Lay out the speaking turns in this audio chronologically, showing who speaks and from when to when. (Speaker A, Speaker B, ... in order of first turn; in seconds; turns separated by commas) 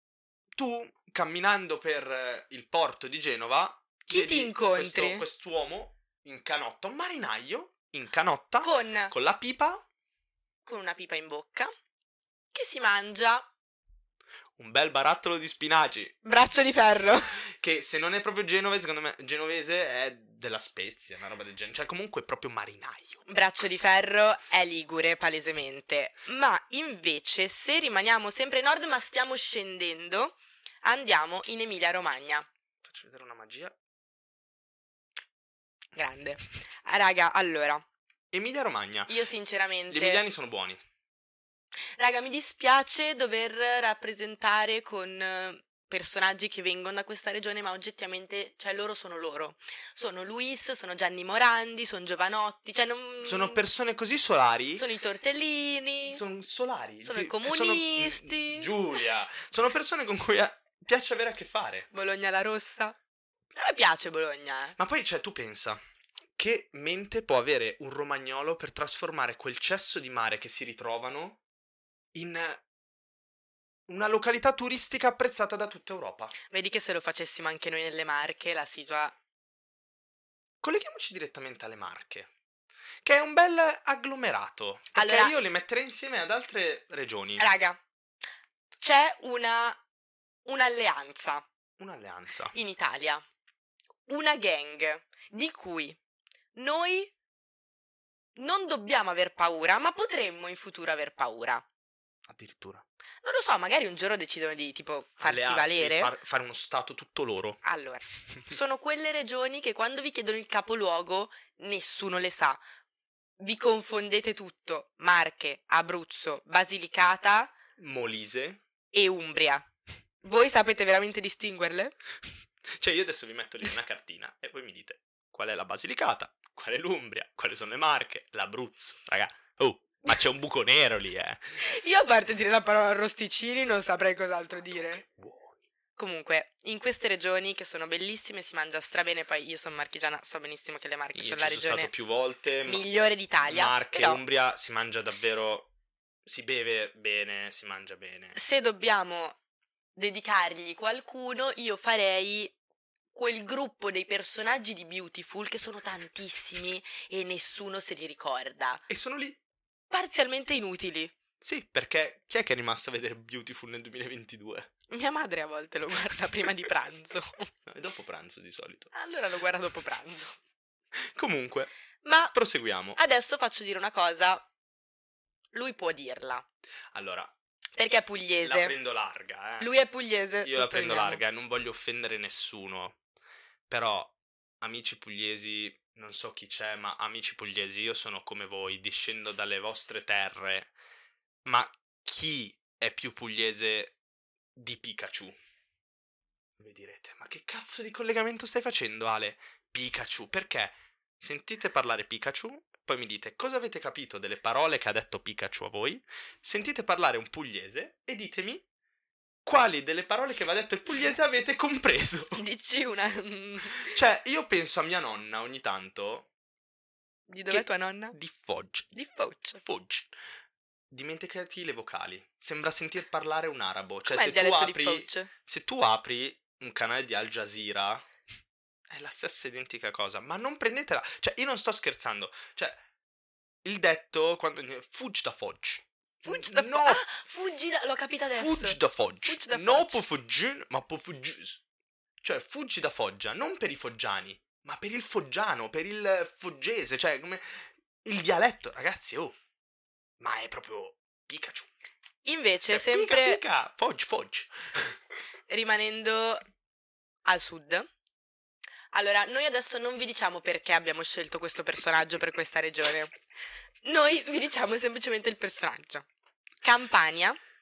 Speaker A: 0.6-9.8, Speaker B: 4.1-5.2, Speaker B: 8.6-9.1, Speaker B: 10.7-11.7, Speaker B: 12.5-13.5, Speaker A: 14.6-16.1, Speaker B: 16.2-17.4, Speaker A: 17.5-23.2, Speaker B: 23.3-32.5, Speaker A: 32.8-33.8, Speaker B: 36.0-37.8, Speaker A: 38.3-39.2, Speaker B: 39.1-40.2, Speaker A: 39.9-40.8, Speaker B: 42.0-53.6, Speaker A: 53.2-54.9, Speaker B: 54.8-56.2, Speaker A: 56.1-61.9, Speaker B: 57.0-58.8, Speaker B: 61.9-63.0, Speaker B: 63.6-64.8, Speaker A: 64.8-65.8, Speaker A: 66.4-71.4, Speaker A: 72.2-72.6, Speaker A: 73.9-76.3, Speaker B: 76.5-79.2, Speaker A: 80.6-82.3, Speaker A: 83.0-87.5, Speaker B: 84.9-85.3, Speaker B: 87.4-87.8, Speaker B: 88.8-89.8, Speaker B: 90.5-91.5, Speaker A: 91.8-92.5, Speaker B: 92.5-93.2, Speaker B: 94.1-96.0, Speaker B: 96.5-97.1, Speaker B: 98.4-101.6, Speaker A: 102.3-102.8, Speaker B: 103.2-106.1, Speaker A: 105.2-107.6, Speaker B: 107.6-112.6, Speaker B: 113.4-117.5, Speaker A: 117.8-118.6, Speaker B: 118.9-119.7, Speaker B: 120.2-122.0, Speaker A: 122.8-131.6, Speaker B: 131.6-135.0, Speaker A: 134.9-135.6, Speaker B: 136.0-141.9, Speaker A: 141.2-142.9, Speaker B: 142.7-144.2, Speaker A: 143.4-145.7, Speaker A: 146.3-148.4, Speaker B: 148.3-149.4, Speaker B: 150.0-152.5, Speaker B: 153.1-158.8, Speaker A: 158.9-159.4, Speaker B: 159.9-161.1, Speaker A: 161.4-164.7, Speaker B: 164.9-167.5, Speaker A: 167.7-168.9, Speaker B: 168.9-170.4, Speaker A: 171.2-171.7, Speaker B: 172.0-172.3, Speaker A: 172.3-173.0, Speaker B: 172.9-174.5, Speaker B: 175.5-176.4, Speaker A: 176.9-177.3, Speaker B: 177.8-178.7, Speaker A: 178.4-179.7, Speaker B: 179.6-181.2, Speaker A: 180.4-183.0, Speaker A: 183.7-190.7, Speaker A: 191.5-194.0, Speaker A: 194.6-195.3, Speaker A: 196.6-208.7, Speaker A: 209.4-212.4, Speaker B: 212.4-214.0, Speaker A: 213.8-216.3, Speaker B: 217.3-218.2, Speaker A: 217.5-218.9, Speaker B: 218.9-219.6, Speaker A: 219.6-220.1, Speaker A: 220.9-228.1, Speaker B: 224.1-225.3, Speaker A: 228.9-232.8, Speaker A: 233.6-237.1, Speaker B: 236.2-240.0, Speaker A: 238.3-241.6, Speaker A: 242.2-249.3, Speaker A: 250.2-251.7, Speaker B: 252.2-253.4, Speaker A: 252.7-255.0, Speaker B: 255.5-256.4, Speaker B: 257.2-257.9, Speaker B: 258.9-263.1, Speaker B: 263.8-266.1, Speaker B: 266.6-267.4